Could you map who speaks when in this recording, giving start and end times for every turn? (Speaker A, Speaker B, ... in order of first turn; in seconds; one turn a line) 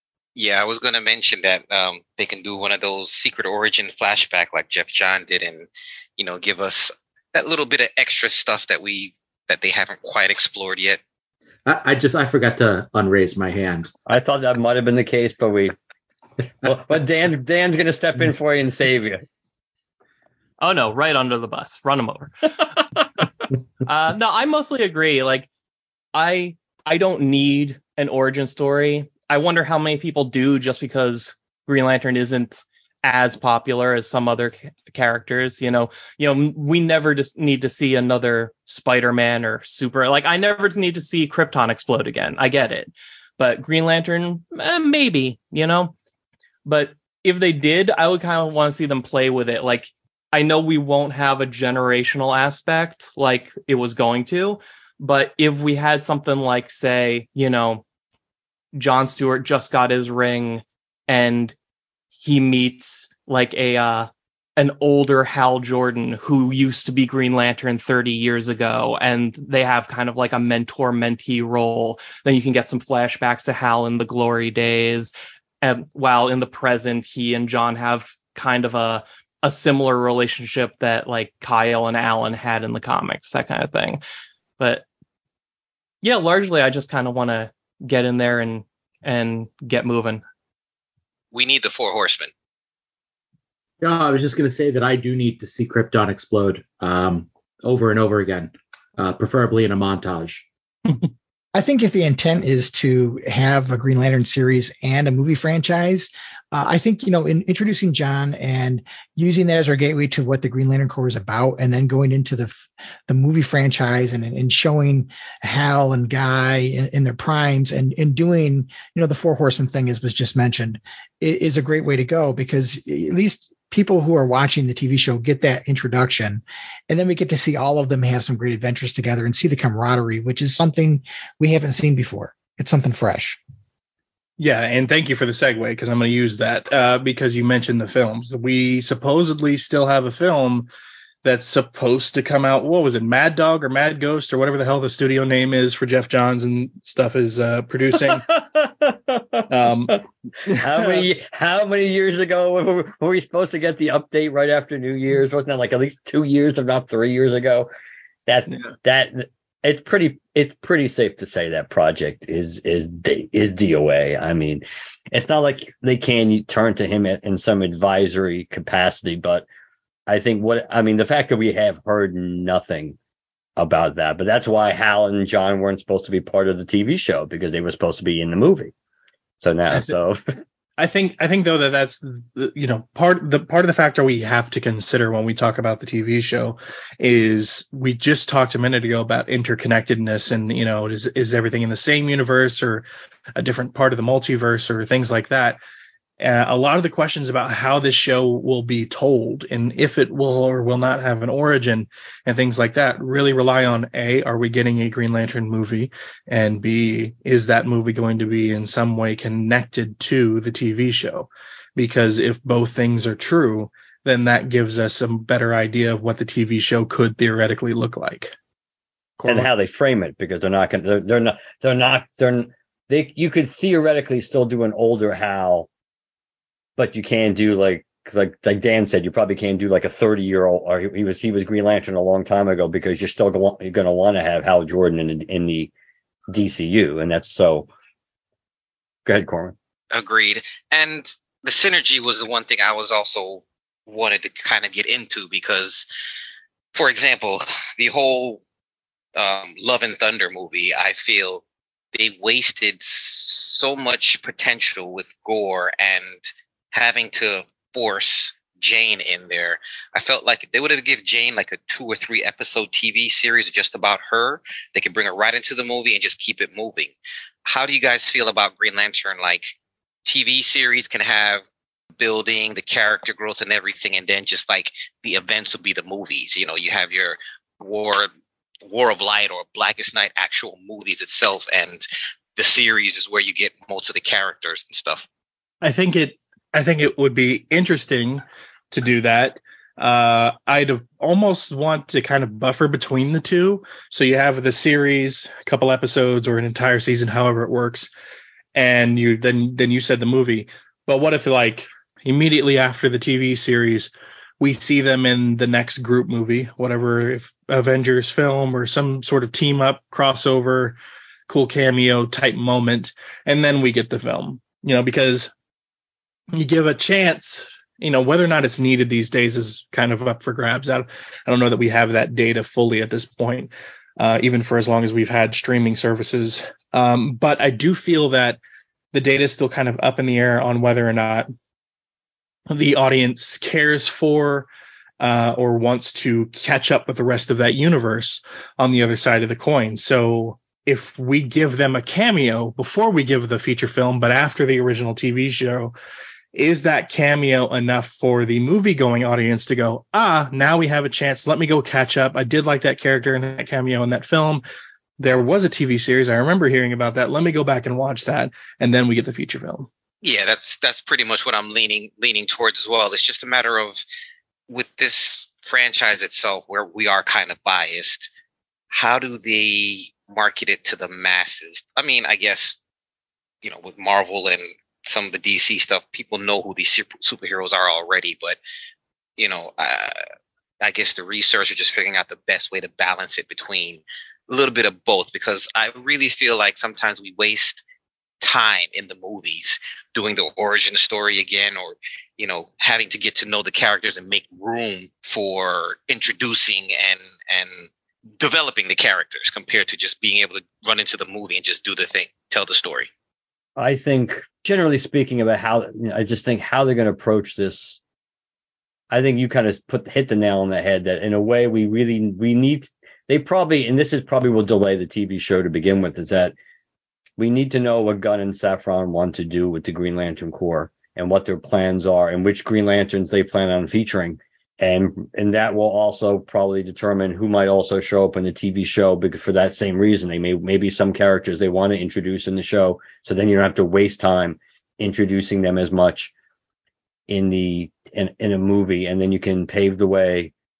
Speaker A: 0.4-11.0
Speaker B: 11.7-13.9
Speaker C: 14.1-15.7
Speaker C: 16.6-19.2
Speaker D: 20.6-23.2
Speaker D: 23.8-25.5
Speaker D: 26.1-45.9
Speaker D: 46.7-57.8
Speaker D: 58.7-61.5
Speaker D: 62.2-84.0
Speaker D: 84.6-84.8
Speaker D: 86.0-90.2
Speaker A: 91.3-92.3
Speaker B: 93.8-100.5
Speaker E: 101.5-133.4
Speaker F: 134.4-140.7
Speaker F: 141.2-148.3
Speaker C: 148.0-157.7
Speaker F: 149.5-149.9
Speaker F: 150.5-151.1
Speaker C: 158.3-169.4
Speaker C: 170.1-173.0
Speaker C: 173.6-178.7
Speaker C: 179.4-180.2
Speaker F: 180.8-195.6
Speaker F: 196.2-218.3
Speaker F: 219.2-219.5
Speaker C: 219.3-225.7
Speaker C: 226.8-235.7
Speaker C: 236.3-237.7
Speaker C: 239.1-239.6
Speaker A: 239.9-245.9
Speaker A: 246.8-248.4
Speaker A: 249.2-251.4
Speaker A: 251.9-256.2
Speaker A: 256.7-266.9
Speaker A: 267.4-269.5
Speaker A: 270.1-271.4
Speaker A: 272.0-278.1
Speaker A: 278.7-281.8
Speaker A: 282.4-285.0
Speaker F: 285.6-297.9
Speaker F: 298.5-315.3
Speaker F: 316.3-328.4
Speaker F: 328.9-331.3
Speaker F: 332.5-334.5
Speaker F: 335.0-345.7
Speaker F: 346.3-354.4
Speaker F: 355.0-359.7
Speaker A: 360.0-363.8
Speaker A: 364.5-368.1
Speaker A: 368.7-372.6
Speaker A: 373.4-378.4
Speaker A: 379.2-380.0
Speaker A: 380.6-387.6
Speaker A: 388.2-397.7
Speaker A: 398.2-402.9
Speaker C: 403.6-407.8
Speaker C: 408.9-416.3
Speaker C: 417.2-436.1
Speaker C: 437.1-440.3